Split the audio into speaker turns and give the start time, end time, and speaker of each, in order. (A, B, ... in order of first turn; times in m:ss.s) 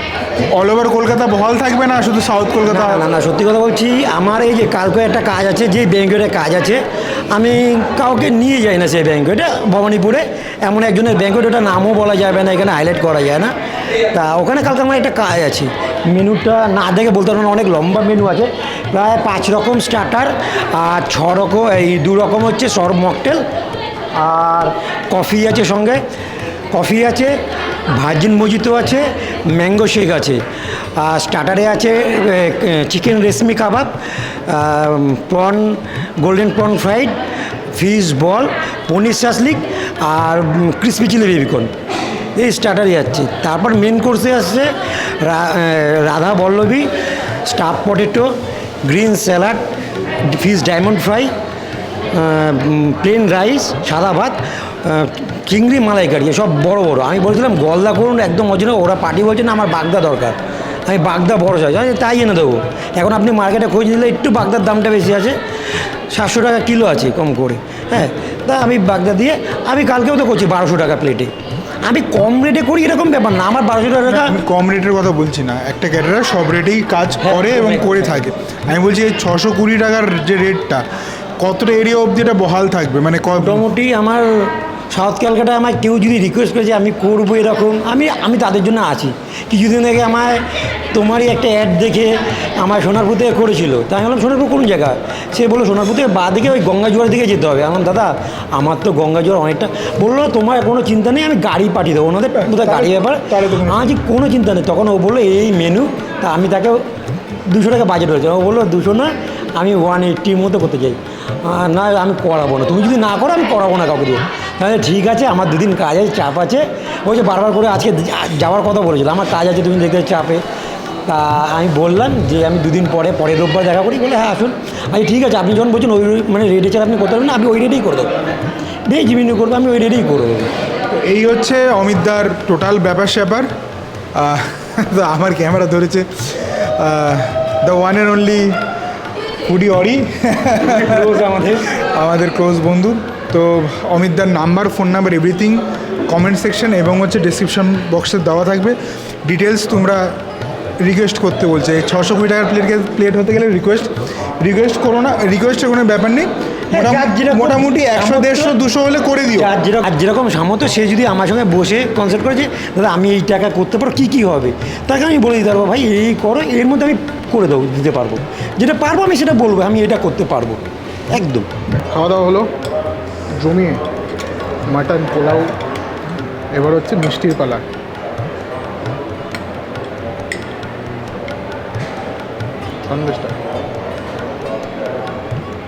0:00.5-0:03.0 A
0:02.7-0:13.5 B
0:14.1-0:23.4 B
0:24.2-0:26.0 B
0:26.7-0:27.3 B
0:27.9-0:30.4 B
0:31.0-0:37.1 B
0:37.7-0:41.7 B
0:42.3-0:46.9 B
0:47.4-0:48.3 B
0:48.8-0:49.6 B
0:50.2-0:51.3 B
0:52.1-1:00.4 B
1:00.9-1:05.3 B
1:06.1-1:11.3 B
1:11.8-1:14.4 B
1:14.0-1:20.8 A
1:17.2-1:18.3 B
1:21.4-1:23.6 A
1:23.4-1:30.4 B
1:30.9-1:46.8 B
1:42.3-1:44.0 A
1:47.4-2:00.4 B
2:01.0-2:08.1 B
2:08.9-2:10.5 B
2:10.9-2:13.5 A
2:14.2-2:18.5 A
2:19.5-2:21.1 A
2:20.6-2:21.6 B
2:21.7-2:30.0 A
2:30.8-2:39.5 A
2:36.7-2:38.6 B
2:39.3-2:51.5 B
2:51.9-2:52.5 C
2:53.4-2:53.8 C
2:54.7-2:55.5 C
2:56.5-2:57.6 C
3:02.8-3:03.4 C